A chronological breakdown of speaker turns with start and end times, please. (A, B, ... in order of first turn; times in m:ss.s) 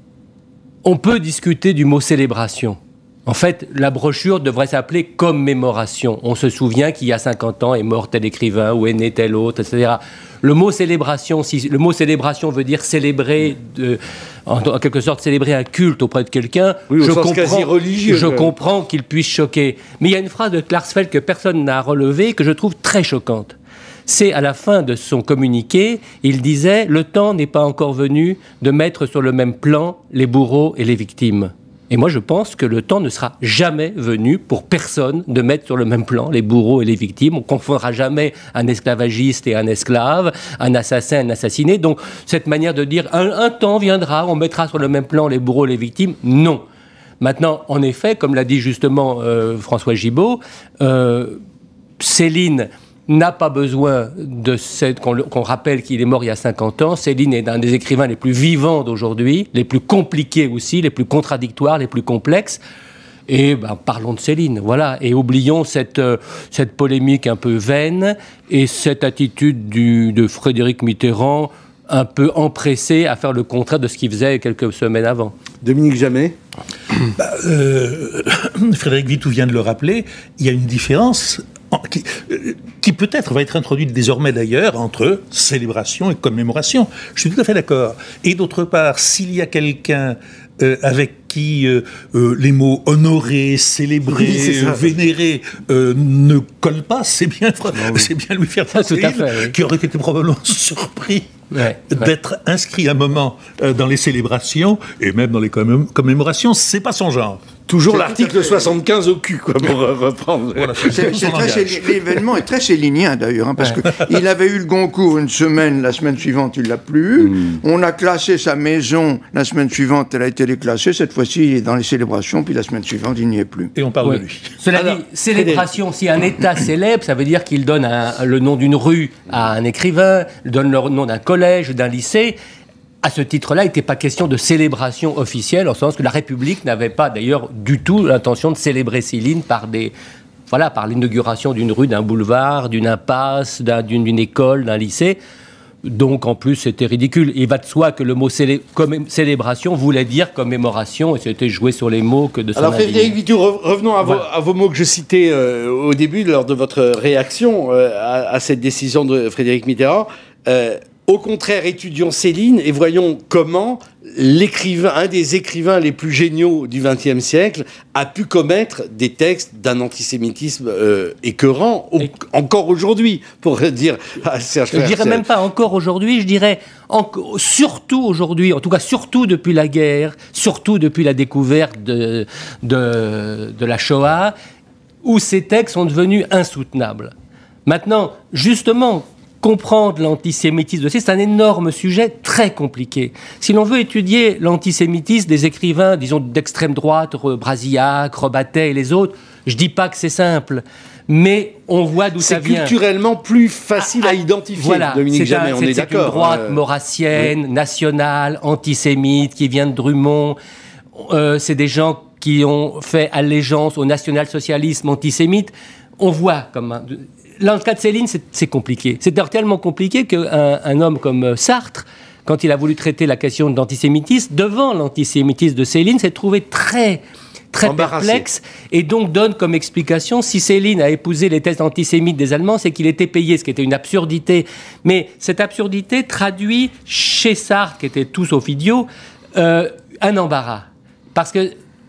0:00.8-0:23.6 A
0:16.9-0:18.5 B
0:24.1-0:46.6 A
0:47.2-0:51.4 A
0:52.0-1:02.6 A
1:03.3-1:15.3 A
1:15.6-1:16.4 B
1:17.1-1:41.3 C
1:34.1-1:34.8 B
1:37.8-1:38.1 B
1:38.7-1:39.5 A
1:41.5-1:42.1 A
1:41.9-1:47.4 C
1:47.7-1:51.6 B
1:50.6-1:52.0 C
1:50.9-2:03.7 D
1:57.2-1:57.6 B
2:03.8-2:04.6 C
2:04.0-2:12.4 A
2:04.7-2:05.7 B
2:13.0-2:19.9 A
2:20.5-2:25.2 A
2:25.8-2:33.2 A
2:32.6-2:55.2 B
2:54.7-3:04.3 A
3:05.0-3:07.1 A
3:07.6-3:22.7 A
3:22.2-3:26.6 B
3:23.8-3:30.4 A
3:31.0-4:01.5 A
3:47.6-3:48.2 B